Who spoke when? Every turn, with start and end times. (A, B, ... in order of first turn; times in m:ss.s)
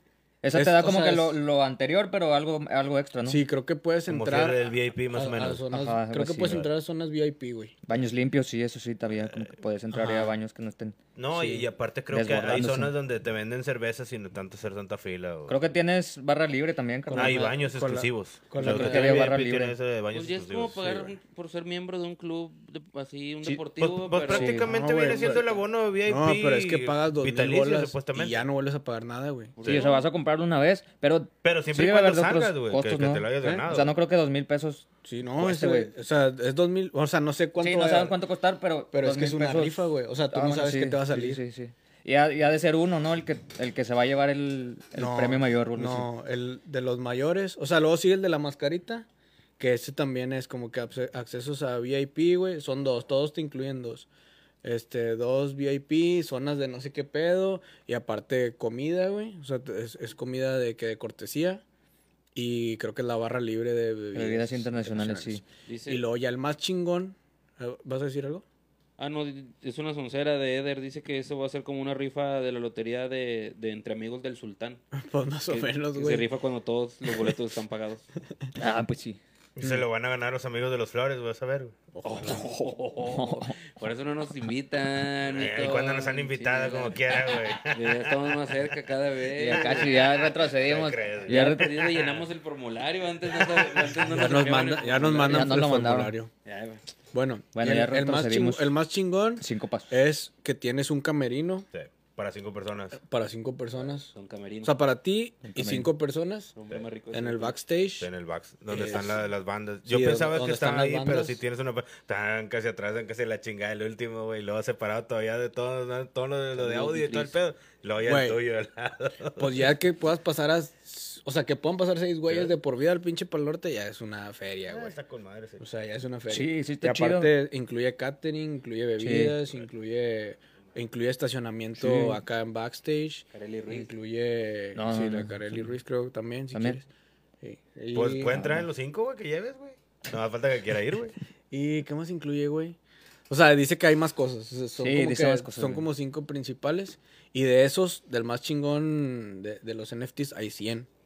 0:00.4-0:03.4 A
0:00.5-0:01.4 B
0:03.2-0:07.7 B
0:04.1-0:05.6 C
0:05.7-0:06.7 A
0:07.8-0:11.0 A
0:09.9-0:10.4 B
0:11.2-0:15.5 C
0:11.3-0:11.6 B
0:12.1-0:12.9 A
0:15.5-0:17.5 A
0:17.1-0:19.3 B
0:17.1-0:21.2 C
0:18.6-0:19.7 A
0:20.1-0:25.6 D
0:23.8-0:28.4 C
0:24.3-0:24.6 A
0:24.6-0:25.5 B
0:26.0-0:29.6 B
0:29.6-0:30.1 D
0:29.6-0:34.9 A
0:31.4-0:33.9 C
0:33.4-0:33.7 B
0:35.0-0:38.2 B
0:35.4-0:35.9 A
0:37.6-0:46.1 A
0:38.9-0:41.4 B
0:44.9-0:49.1 B
0:49.6-0:54.1 B
0:54.6-1:01.6 B
1:02.3-1:08.4 B
1:04.1-1:05.4 A
1:05.7-1:06.0 D
1:09.0-1:14.8 D
1:14.9-1:16.3 B
1:15.5-1:18.1 D
1:17.1-1:17.3 B
1:18.6-1:19.2 A
1:19.6-1:21.7 C
1:19.6-1:19.8 B
1:21.9-1:22.5 B
1:22.0-1:30.2 D
1:23.0-1:23.6 A
1:25.2-1:28.5 C
1:29.3-1:31.7 A
1:29.8-1:32.3 C
1:31.2-1:35.6 D
1:33.4-1:33.9 C
1:34.0-1:36.3 B
1:35.3-1:36.1 A
1:36.4-1:36.8 D
1:37.1-1:41.7 B
1:37.5-1:38.7 A
1:39.4-1:40.0 A
1:41.7-1:43.0 C
1:43.0-1:44.1 B
1:44.1-1:44.8 D
1:44.6-1:46.5 B
1:45.5-1:45.9 A
1:46.6-1:47.6 D
1:47.1-1:48.1 B
1:48.0-1:59.5 C
1:48.7-1:49.2 B
1:49.8-1:51.4 B
1:56.5-1:57.4 D
1:58.0-1:58.4 B
1:59.4-2:05.0 B
2:02.3-2:02.5 C
2:04.6-2:05.6 C
2:05.6-2:16.9 B
2:06.3-2:07.3 A
2:09.0-2:09.4 A
2:11.8-2:12.2 A
2:13.3-2:13.9 D
2:14.7-2:15.7 A
2:16.5-2:16.8 A
2:17.4-2:18.4 B
2:17.9-2:21.1 C
2:18.3-2:18.6 A
2:21.5-2:22.8 B
2:23.3-2:30.9 B
2:24.8-2:25.9 A